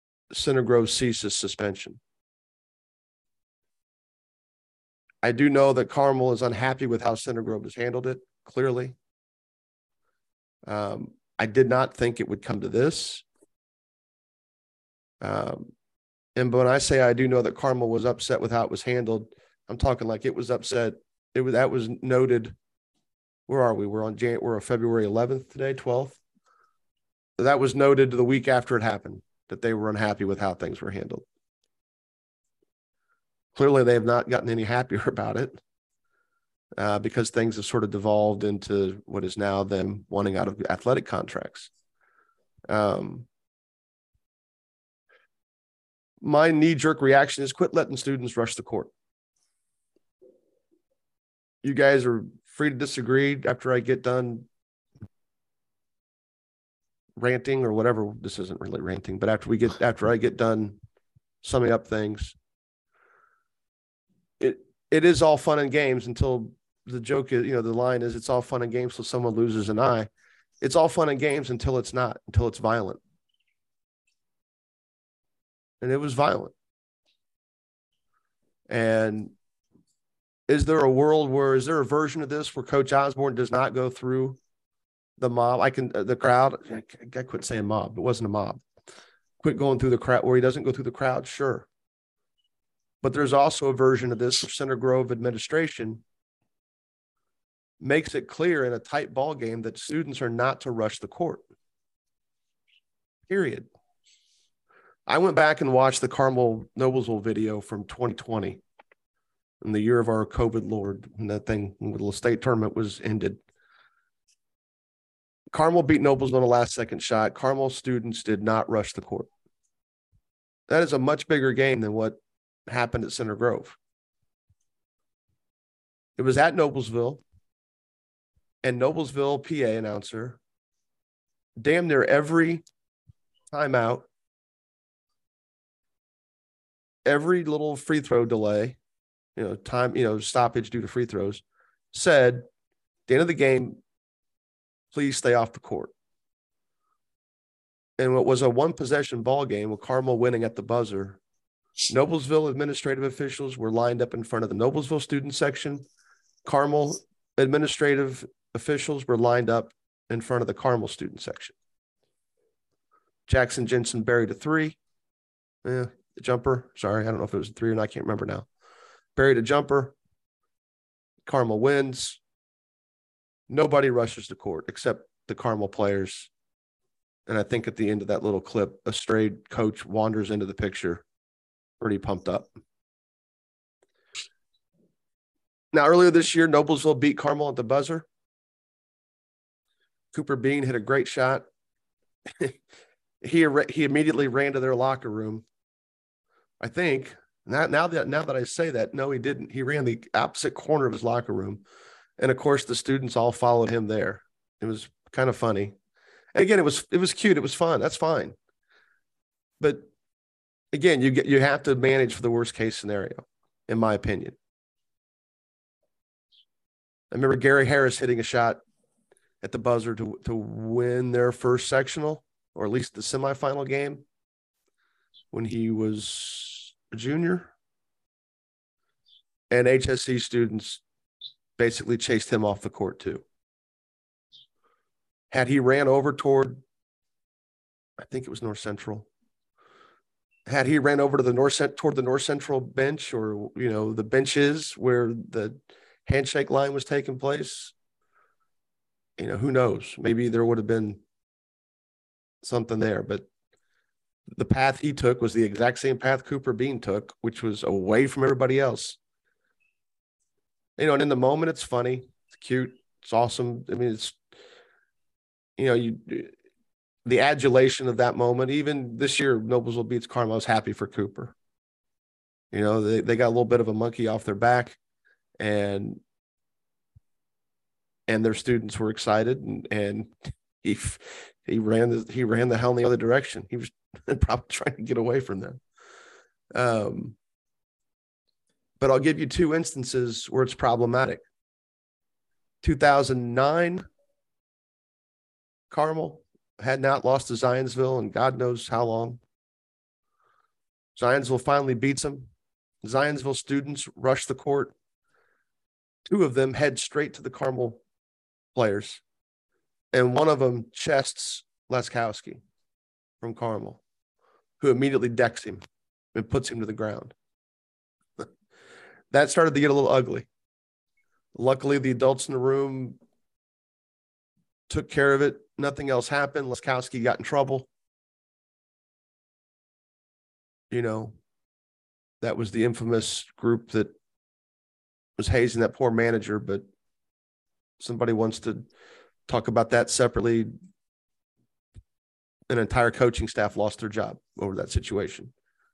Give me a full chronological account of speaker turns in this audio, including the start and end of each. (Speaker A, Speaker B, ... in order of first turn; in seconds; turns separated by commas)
Speaker A: 0.3-2.0, Speaker A: 5.2-8.9, Speaker A: 10.7-13.2, Speaker A: 15.2-15.7, Speaker A: 16.4-22.5, Speaker A: 23.5-26.2, Speaker A: 27.4-31.2, Speaker A: 33.5-35.6, Speaker A: 36.8-41.7, Speaker A: 42.7-43.3, Speaker A: 46.2-48.9, Speaker A: 51.6-54.5, Speaker A: 57.2-60.8, Speaker A: 61.4-62.4, Speaker A: 64.4-70.1, Speaker A: 70.6-73.0, Speaker A: 75.8-76.5, Speaker A: 78.7-79.3, Speaker A: 80.5-84.4, Speaker A: 85.2-88.6, Speaker A: 89.4-91.7, Speaker A: 93.0-96.0, Speaker A: 97.8-101.4, Speaker A: 103.3-103.7, Speaker A: 105.1-108.6, Speaker A: 109.6-113.4, Speaker A: 115.5-119.3, Speaker A: 120.7-123.8, Speaker A: 126.2-127.2, Speaker A: 128.6-130.4, Speaker A: 131.6-132.6, Speaker A: 133.5-134.1, Speaker A: 137.1-138.8, Speaker A: 139.3-142.4, Speaker A: 143.1-143.8, Speaker A: 144.9-145.9, Speaker A: 148.0-151.2, Speaker A: 151.9-155.8, Speaker A: 156.4-161.5, Speaker A: 163.3-164.8, Speaker A: 165.6-168.5, Speaker A: 169.2-169.9, Speaker A: 171.2-172.2, Speaker A: 173.5-176.3, Speaker A: 177.3-181.0, Speaker A: 181.8-182.5, Speaker A: 185.7-188.1, Speaker A: 190.1-191.4, Speaker A: 193.2-195.4, Speaker A: 196.6-201.6, Speaker A: 202.2-205.7, Speaker A: 206.3-208.3, Speaker A: 209.6-209.9, Speaker A: 210.7-214.3, Speaker A: 217.1-218.6, Speaker A: 219.4-224.0, Speaker A: 225.3-227.5, Speaker A: 229.5-230.8, Speaker A: 231.6-233.2, Speaker A: 235.3-236.6, Speaker A: 238.0-239.1, Speaker A: 240.5-247.7, Speaker A: 249.2-251.0, Speaker A: 252.4-253.2, Speaker A: 254.3-259.0, Speaker A: 260.8-264.2, Speaker A: 265.6-266.3, Speaker A: 267.0-271.3, Speaker A: 272.5-274.8, Speaker A: 275.4-276.0, Speaker A: 278.1-285.6, Speaker A: 286.5-287.1, Speaker A: 288.8-291.2, Speaker A: 292.6-293.8, Speaker A: 295.7-299.2, Speaker A: 300.9-302.3, Speaker A: 302.8-304.7, Speaker A: 306.1-307.8, Speaker A: 308.5-309.0, Speaker A: 309.9-312.4, Speaker A: 313.2-313.8, Speaker A: 314.6-315.6, Speaker A: 316.1-317.1, Speaker A: 319.1-320.3, Speaker A: 321.3-323.0, Speaker A: 324.7-327.7, Speaker A: 330.7-331.1, Speaker A: 332.2-333.9, Speaker A: 335.2-336.6, Speaker A: 337.8-338.6, Speaker A: 339.3-340.5, Speaker A: 342.5-345.3